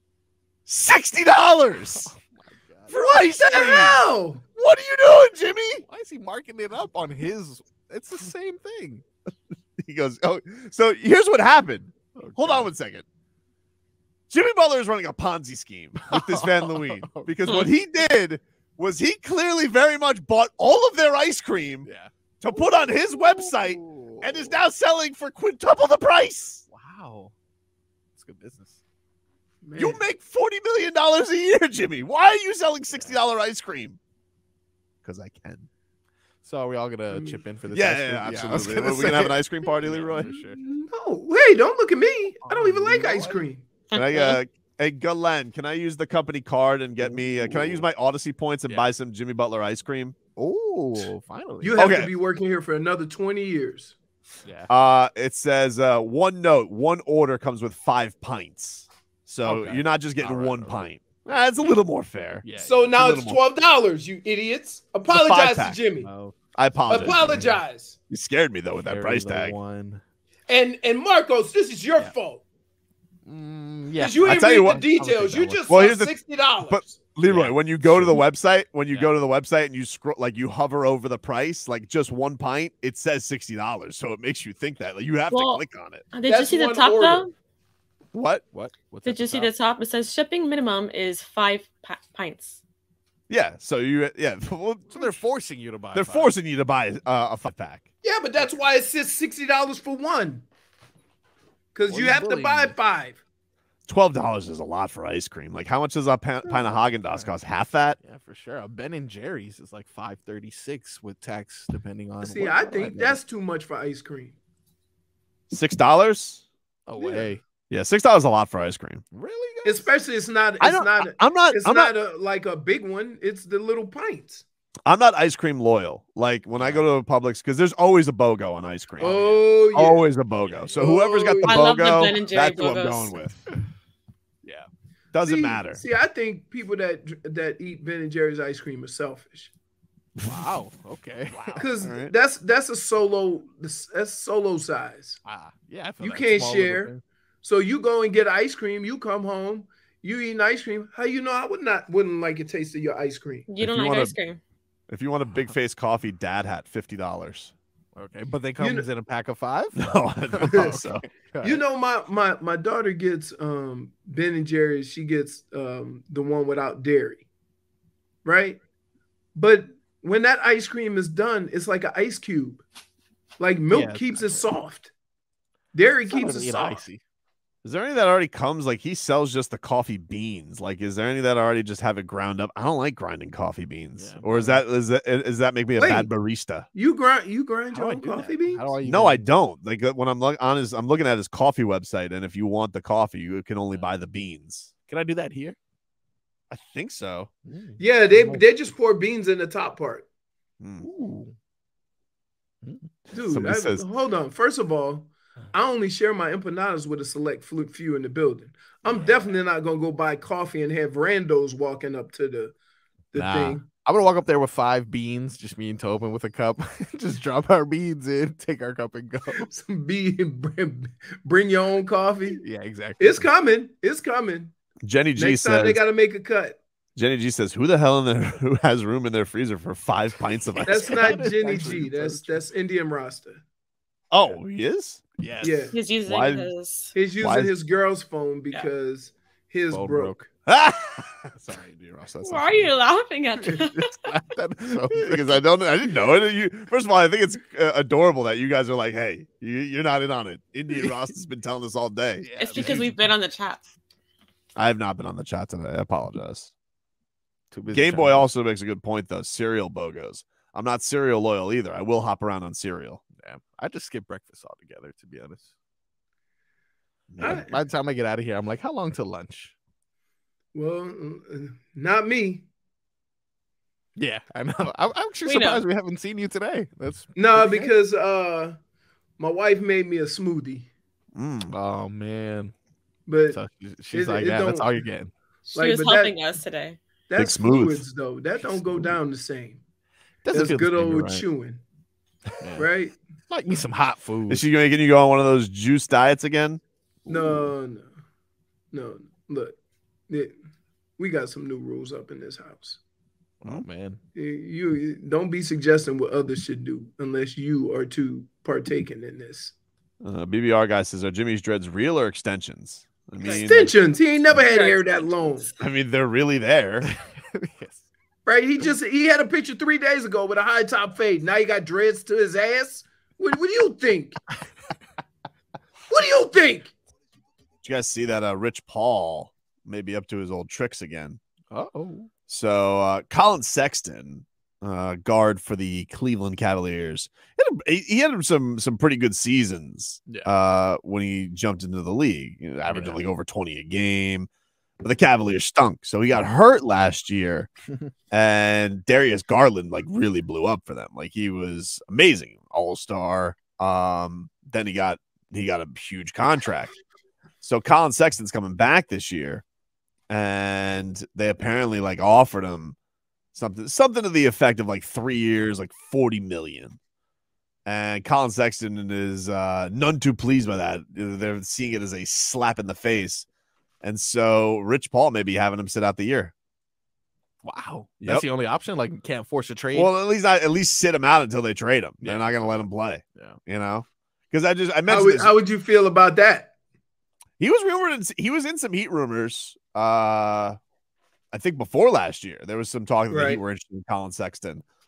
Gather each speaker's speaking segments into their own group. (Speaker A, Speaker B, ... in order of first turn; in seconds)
Speaker A: 0.7-2.1, 2.9-4.0, 4.6-5.8, 9.8-13.1, 14.3-21.9, 22.4-26.6, 29.8-34.0, 35.0-35.7, 37.7-40.3, 43.9-50.2, 51.8-52.1, 54.7-63.4, 65.1-65.8, 66.5-67.5, 68.1-69.6, 74.2-74.8, 75.7-86.0, 88.1-88.4, 93.3-95.2, 95.9-97.9, 103.9-108.0, 115.5-116.5, 117.7-119.0, 120.6-121.9, 124.9-129.2, 129.7-133.4, 135.1-135.8, 141.4-142.1, 153.6-154.2, 154.9-157.5, 159.8-161.1, 177.6-186.7, 188.8-194.7, 196.5-197.3, 200.6-200.9, 203.1-203.8, 224.8-225.8, 227.0-231.1, 234.1-235.0, 236.1-236.5, 237.2-237.5, 240.5-242.7, 244.9-252.9, 254.6-256.5, 257.7-263.0, 267.1-267.5, 281.1-281.5, 287.2-287.8, 294.3-297.5, 310.0-313.7, 315.6-316.9, 327.6-331.2, 332.3-344.3, 344.8-347.5, 348.1-356.7, 357.4-359.4, 360.1-362.8, 363.3-366.8, 367.7-373.3, 373.8-376.3, 379.7-385.3, 387.4-390.6, 391.3-394.6
Speaker B: 1.9-3.0, 5.8-9.0, 12.2-12.7, 16.1-17.4, 21.9-24.6, 26.7-27.3, 28.2-28.8, 36.4-40.6, 42.5-43.4, 47.0-47.9, 50.4-51.9, 54.5-54.7, 59.5-61.4, 62.4-63.0, 66.0-67.6, 68.9-70.0, 73.2-75.7, 77.3-78.2, 78.9-79.2, 88.5-89.5, 94.9-96.3, 101.9-102.8, 108.0-113.2, 116.9-117.4, 119.1-119.9, 126.6-126.9, 129.0-129.5, 130.4-130.9, 134.4-134.7, 140.2-141.7, 145.2-147.0, 157.9-161.6, 173.7-174.5, 176.1-177.0, 184.0-184.6, 187.7-189.3, 194.9-195.6, 197.5-198.4, 200.8-201.3, 202.6-202.9, 208.9-209.3, 213.2-219.5, 222.3-223.3, 230.6-232.4, 235.2-235.8, 239.7-240.3, 241.3-242.0, 243.4-245.4, 252.2-253.1, 257.5-258.3, 263.2-265.5, 267.2-269.5, 274.0-277.7, 281.5-282.5, 283.3-285.1, 288.5-288.9, 290.2-291.2, 292.4-292.7, 293.3-294.4, 303.4-304.0, 316.8-317.9, 331.5-332.1, 342.7-343.0, 377.4-379.9, 382.0-382.6
Speaker C: 3.5-4.4, 29.6-30.0, 37.1-37.4, 40.2-43.6, 51.6-54.0, 62.6-66.1, 66.9-68.0, 70.5-72.4, 74.0-77.0, 86.3-87.3, 98.0-100.5, 101.7-103.2, 112.2-114.3, 117.0-117.3, 119.6-124.4, 129.0-130.0, 130.8-131.6, 135.2-139.5, 141.6-145.2, 146.0-153.5, 158.6-158.9, 161.4-167.2, 168.2-168.6, 169.3-172.6, 173.4-174.9, 175.7-176.8, 185.8-186.1, 186.7-188.7, 197.8-200.1, 203.1-212.6, 213.1-213.7, 219.4-222.4, 223.0-224.5, 225.2-226.6, 230.7-233.4, 235.4-235.8, 236.9-240.2, 267.2-267.6, 270.5-272.5, 277.1-278.6, 279.2-280.7, 283.1-284.8, 285.5-286.1, 287.1-289.6, 290.3-291.6, 292.6-293.0, 297.1-297.9, 298.7-299.6, 300.1-300.4, 301.0-302.8, 304.1-309.5, 313.4-315.5, 318.3-324.2, 325.9-326.7, 384.9-386.5, 393.1-393.4
Speaker D: 43.9-44.4, 85.3-87.3, 89.0-92.6, 131.4-133.2, 153.5-154.4, 235.7-236.9, 242.2-244.1, 252.4-253.7, 275.3-275.6, 285.5-286.8, 313.2-313.5, 314.3-315.6